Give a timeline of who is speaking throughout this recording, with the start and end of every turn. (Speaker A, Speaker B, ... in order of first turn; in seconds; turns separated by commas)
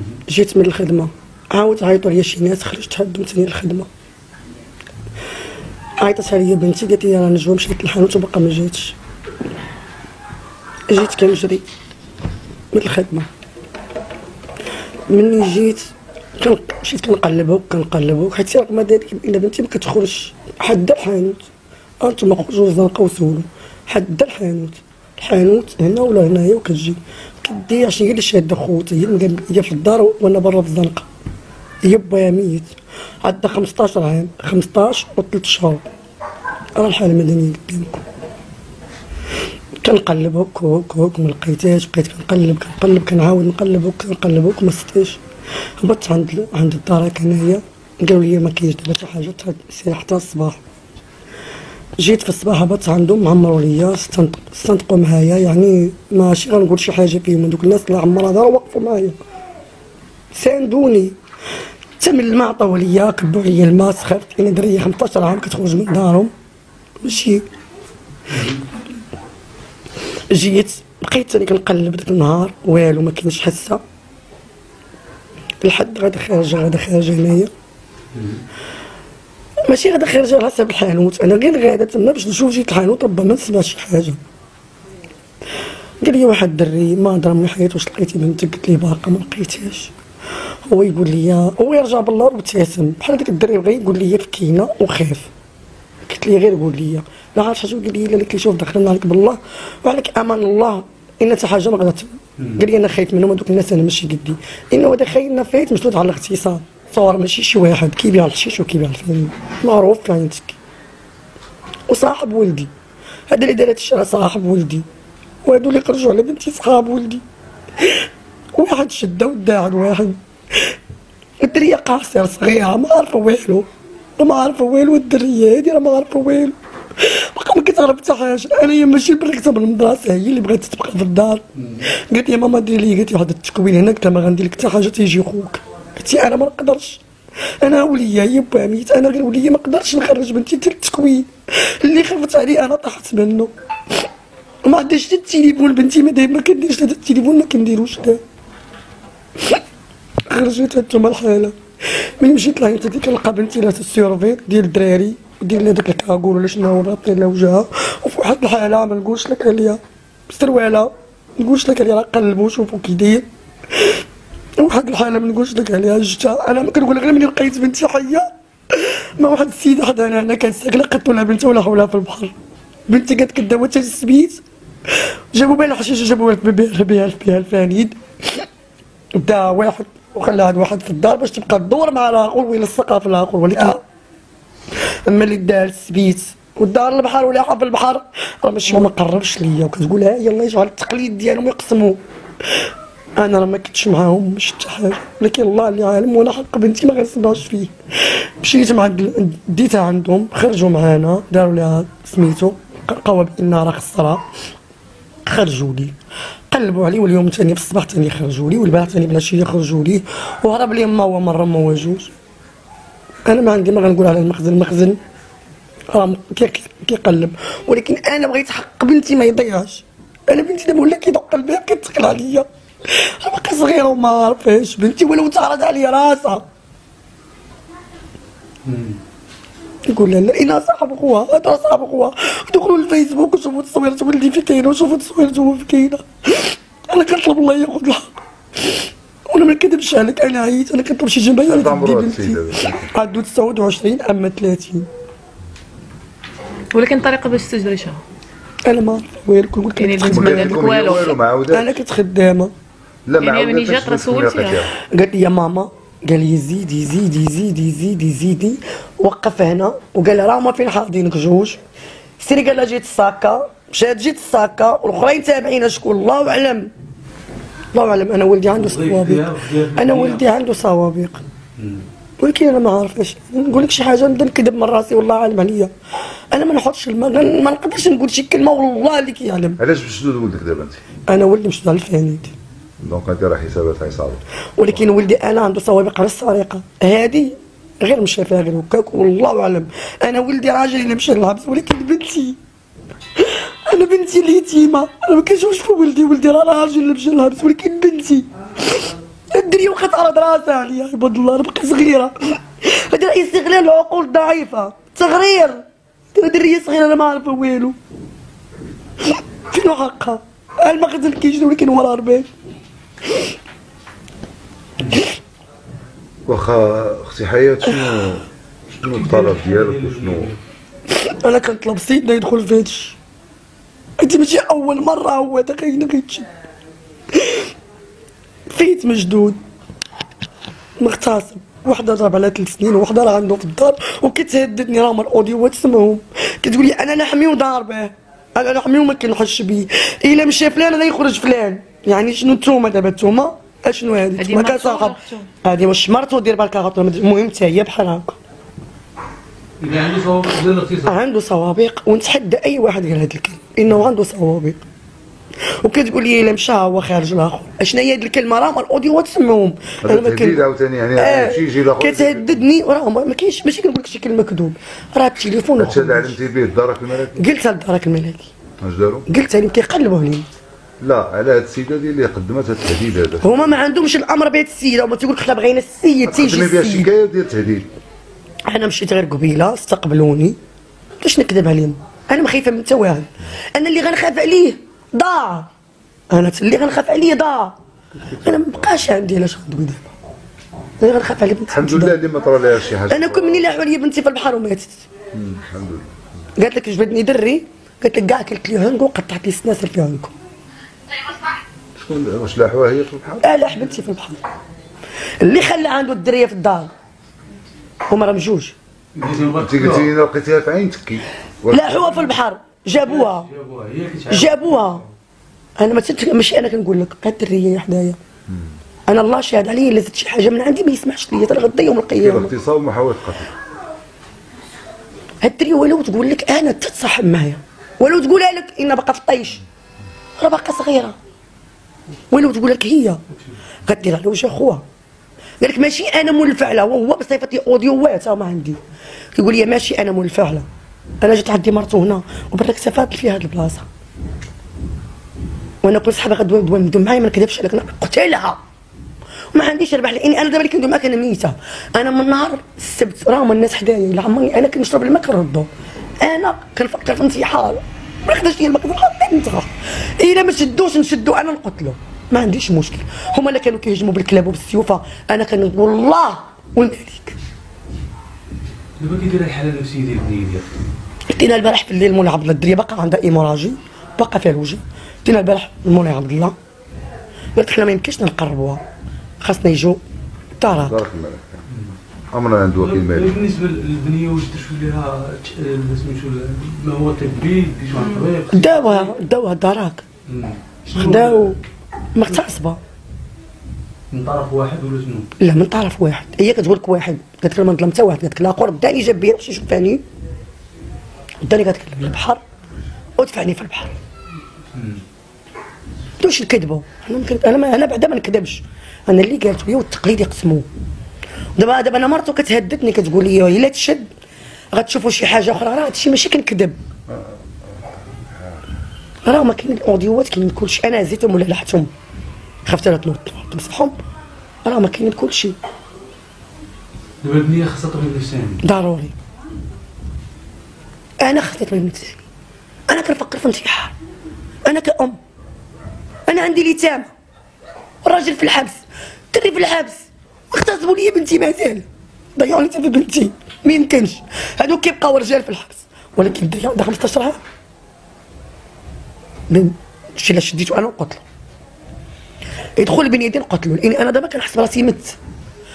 Speaker A: 0.2-3.9, Speaker A: 6.0-8.9, Speaker A: 10.9-11.6, Speaker A: 12.7-13.3, Speaker A: 15.1-21.4, Speaker A: 22.0-31.1, Speaker A: 31.8-35.8, Speaker A: 36.8-38.0, Speaker A: 39.8-45.2, Speaker A: 45.8-50.6, Speaker A: 52.0-59.2, Speaker A: 60.3-61.1, Speaker A: 62.0-66.3, Speaker A: 67.0-67.4, Speaker B: 68.3-68.6, Speaker A: 70.3-73.8, Speaker A: 75.6-77.5, Speaker B: 78.1-78.4, Speaker A: 79.6-84.2, Speaker A: 86.0-89.9, Speaker A: 90.7-95.3, Speaker A: 96.0-110.6, Speaker A: 111.9-112.7, Speaker A: 113.3-114.8, Speaker A: 115.4-117.2, Speaker A: 118.5-120.2, Speaker A: 121.4-137.0, Speaker B: 131.6-131.8, Speaker A: 137.6-143.5, Speaker A: 144.6-148.2, Speaker A: 150.3-164.0, Speaker A: 164.6-172.3, Speaker A: 172.9-174.4, Speaker A: 175.3-178.4, Speaker A: 179.2-183.8, Speaker A: 185.1-192.0, Speaker A: 193.2-204.2, Speaker A: 205.2-205.9, Speaker A: 206.5-212.1, Speaker A: 213.2-215.0, Speaker A: 215.9-226.4, Speaker B: 228.7-229.0, Speaker A: 229.9-238.1, Speaker A: 238.6-244.9, Speaker C: 241.4-242.9, Speaker D: 246.7-248.0, Speaker A: 248.7-250.8, Speaker D: 249.8-251.2, Speaker C: 250.0-251.8, Speaker A: 251.5-252.5, Speaker C: 253.1-254.7, Speaker D: 253.2-254.6, Speaker A: 254.8-261.6, Speaker A: 262.2-266.7, Speaker A: 267.7-271.2, Speaker B: 268.5-270.3, Speaker B: 271.6-271.8, Speaker A: 272.2-275.7, Speaker A: 276.3-279.6, Speaker C: 279.6-280.8, Speaker A: 281.1-282.3, Speaker C: 282.8-284.8, Speaker A: 284.6-292.4, Speaker A: 293.2-305.6, Speaker A: 306.1-307.8, Speaker A: 309.0-312.3, Speaker C: 316.2-318.3, Speaker C: 318.8-320.3, Speaker B: 318.9-320.4, Speaker A: 320.9-323.0, Speaker A: 324.0-326.3, Speaker A: 327.1-327.4, Speaker A: 328.5-329.4, Speaker A: 330.8-348.1, Speaker D: 344.2-345.3, Speaker B: 349.6-350.9, Speaker A: 350.8-354.6, Speaker A: 355.5-366.2, Speaker C: 359.8-362.4, Speaker C: 365.6-367.2, Speaker A: 367.2-368.3, Speaker C: 368.6-369.1, Speaker A: 369.1-370.2, Speaker C: 370.8-373.6, Speaker A: 373.2-376.9, Speaker C: 376.1-377.7, Speaker A: 378.4-380.4, Speaker A: 381.0-385.5, Speaker A: 386.1-387.6, Speaker C: 387.9-388.8, Speaker A: 388.2-389.9, Speaker A: 390.8-392.0, Speaker C: 391.5-393.5, Speaker A: 392.9-394.8, Speaker C: 395.1-395.9, Speaker A: 396.4-400.1, Speaker C: 401.8-403.3, Speaker A: 403.2-404.2, Speaker A: 405.2-406.7, Speaker A: 407.9-408.5, Speaker B: 408.9-409.9, Speaker C: 409.4-411.9, Speaker A: 411.5-413.3, Speaker B: 412.7-414.9, Speaker A: 414.1-414.8, Speaker A: 415.6-418.0, Speaker A: 418.9-422.3, Speaker C: 422.0-423.3, Speaker A: 425.2-429.4, Speaker A: 430.2-430.9, Speaker A: 432.1-433.0, Speaker A: 433.6-434.6, Speaker A: 435.4-438.6, Speaker A: 439.1-440.4, Speaker A: 441.0-443.7, Speaker A: 445.6-448.4, Speaker A: 449.3-455.5, Speaker A: 456.0-467.1, Speaker B: 468.8-470.5, Speaker A: 471.1-476.3, Speaker A: 477.3-478.6, Speaker A: 479.2-479.8, Speaker A: 480.4-480.8, Speaker C: 480.7-481.4, Speaker C: 482.1-483.2, Speaker B: 482.6-488.9, Speaker A: 488.3-489.9, Speaker B: 490.1-491.4, Speaker A: 490.7-491.4, Speaker A: 491.9-492.6, Speaker B: 493.9-495.1, Speaker A: 495.2-499.8, Speaker A: 501.2-502.2, Speaker A: 503.0-503.8, Speaker B: 504.5-504.8, Speaker A: 506.0-510.5, Speaker A: 511.4-513.9, Speaker A: 514.5-516.6, Speaker A: 519.0-521.7, Speaker A: 522.4-523.7, Speaker A: 524.4-525.4, Speaker B: 527.0-528.4, Speaker A: 528.4-528.9, Speaker A: 531.0-532.0, Speaker A: 532.7-533.7, Speaker A: 534.4-535.0, Speaker A: 536.0-536.9, Speaker A: 537.8-538.6, Speaker A: 539.1-547.2, Speaker A: 549.3-551.0, Speaker A: 552.5-555.0